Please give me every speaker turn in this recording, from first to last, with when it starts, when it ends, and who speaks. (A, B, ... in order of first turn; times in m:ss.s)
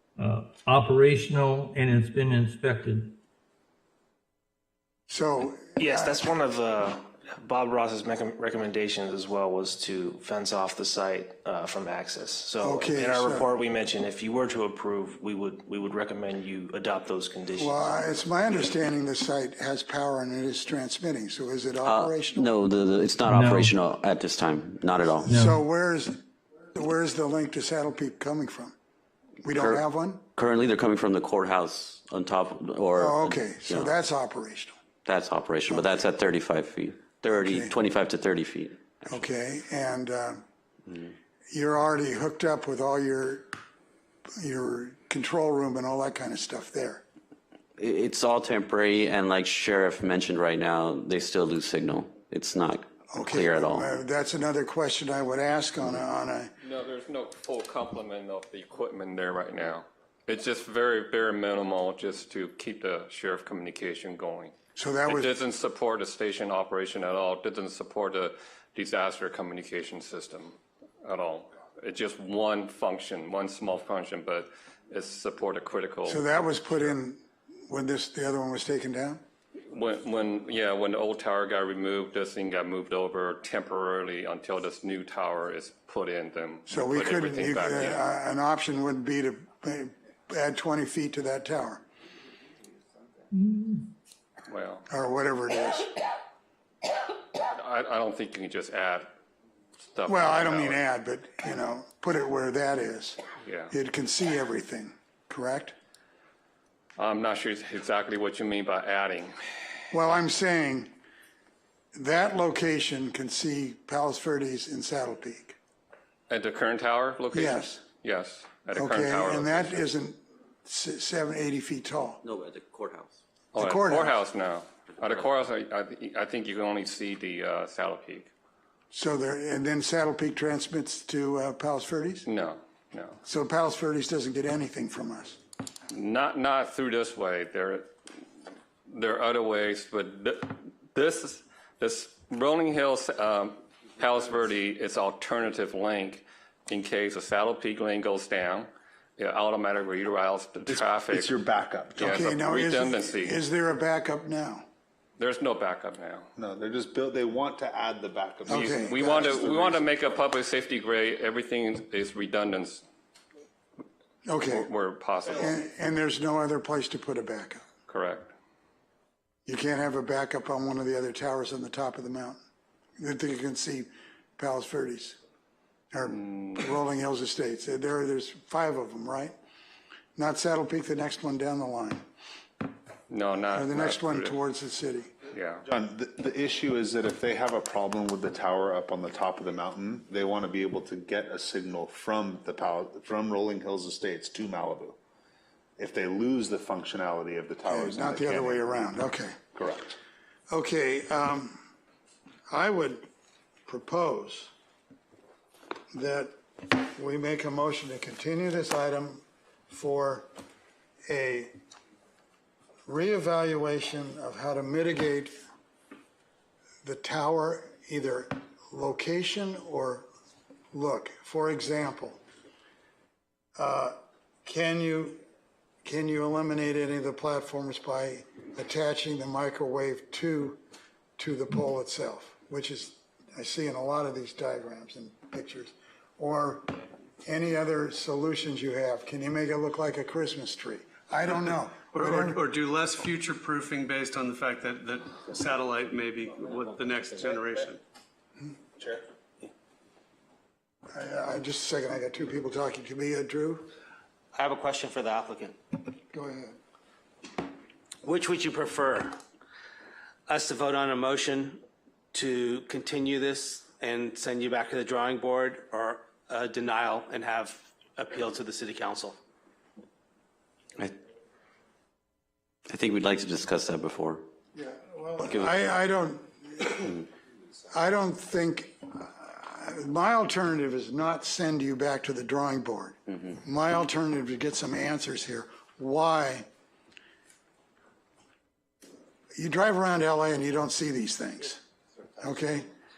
0:00.2-0:03.1 A
0:05.1-0:06.1 B
0:05.8-0:18.1 C
0:12.6-0:13.5 B
0:17.6-0:22.5 B
0:21.8-0:25.4 D
0:23.3-0:23.7 A
0:25.2-0:25.6 A
0:25.3-0:26.2 B
0:26.8-0:28.7 B
0:29.4-0:30.2 B
0:29.5-0:29.8 D
0:30.4-0:33.9 D
0:33.0-0:34.8 B
0:35.0-0:39.0 D
0:37.3-0:37.7 B
0:39.0-0:40.4 B
0:41.5-0:43.5 B
0:44.4-0:47.0 B
0:47.8-0:53.9 D
0:53.1-0:56.5 B
0:56.6-1:04.5 E
1:04.8-1:05.3 B
1:05.1-1:16.9 E
1:16.1-1:19.2 B
1:19.7-1:28.0 E
1:26.7-1:31.8 B
1:33.4-1:33.8 A
1:34.5-1:34.8 E
1:34.9-1:35.9 B
1:37.5-1:39.1 E
1:39.9-1:40.8 E
1:40.1-1:43.2 B
1:43.4-1:43.7 E
1:43.7-1:45.7 B
1:47.0-1:49.3 E
1:49.9-1:50.9 B
1:52.0-1:55.6 B
1:56.3-1:59.9 E
1:57.3-1:57.8 B
1:58.8-2:02.2 B
2:02.2-2:03.2 D
2:03.5-2:08.3 E
2:03.6-2:04.2 B
2:08.9-2:12.3 B
2:12.3-2:13.2 E
2:13.2-2:15.4 B
2:15.9-2:17.9 E
2:18.9-2:31.3 E
2:30.7-2:32.2 F
2:32.0-2:34.6 B
2:32.0-2:33.4 E
2:35.2-2:36.3 E
2:36.4-2:39.9 F
2:38.5-2:39.5 B
2:38.5-2:42.8 E
2:44.3-2:44.7 B
2:44.5-2:45.6 E
2:45.3-2:47.6 B
2:47.9-2:48.3 E
2:49.5-2:52.4 B
2:53.0-2:55.2 B
2:55.9-2:59.4 B
2:56.1-2:56.5 E
3:00.2-3:02.0 B
3:03.1-3:04.4 E
3:03.5-3:05.1 B
3:05.3-3:05.6 E
3:05.7-3:15.0 F
3:15.8-3:19.0 F
3:17.7-3:19.5 B
3:19.6-3:19.9 F
3:20.5-3:21.6 B
3:22.5-3:23.0 B
3:23.7-3:24.5 B
3:25.9-3:30.3 B
3:31.1-3:31.5 B
3:32.9-3:35.3 B
3:36.8-3:40.1 B
3:40.7-3:42.2 B
3:43.6-3:45.2 B
3:45.8-3:50.6 B
3:51.2-3:56.7 B
3:57.2-4:02.4 B
4:01.9-4:07.8 G
4:10.9-4:13.7 B
4:14.4-4:15.6 H
4:16.1-4:16.6 B
4:18.0-4:19.1 H
4:20.3-4:21.6 H
4:22.1-4:27.6 H
4:28.2-4:29.2 H
4:32.7-4:34.2 D
4:34.6-4:37.1 B
4:37.7-4:46.5 B
4:49.4-4:51.6 B
4:52.2-4:52.7 B